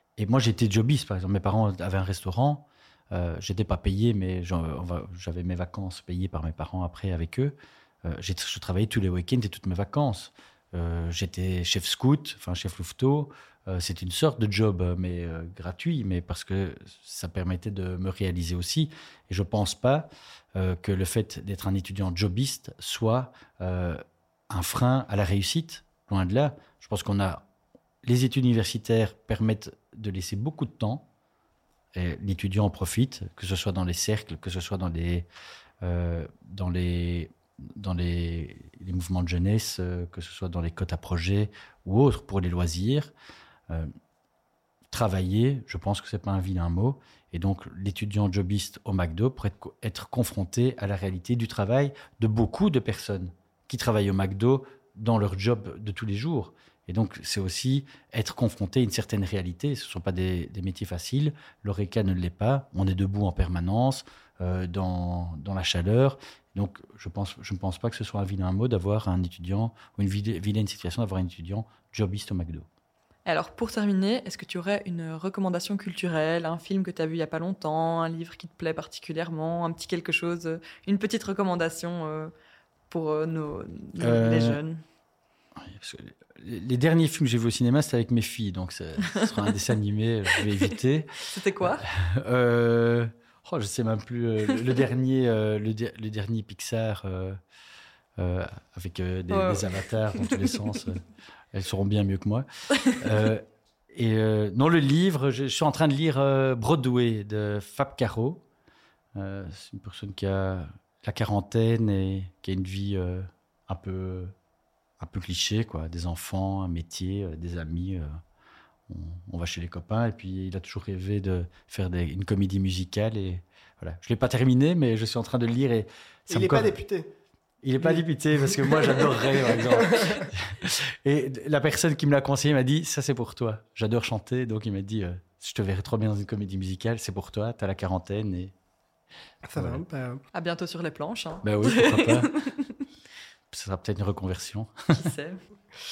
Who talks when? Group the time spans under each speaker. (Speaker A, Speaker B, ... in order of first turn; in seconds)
Speaker A: 0.2-27.5, 28.0-31.1, 31.9-35.3, 35.8-43.1, 44.9-72.7, 84.0-84.6, 85.6-91.1, 91.6-97.4, 98.2-108.4, 109.2-114.3, 115.0-118.1, 118.9-126.8, 127.6-138.5, 139.6-139.8, 141.4-142.3, 143.5-144.9
Speaker B: 73.3-82.3, 82.9-84.8, 91.3-91.9, 99.3-100.7, 140.3-142.8, 144.9-145.4
Speaker C: 126.3-127.1, 128.6-130.2, 139.5-140.2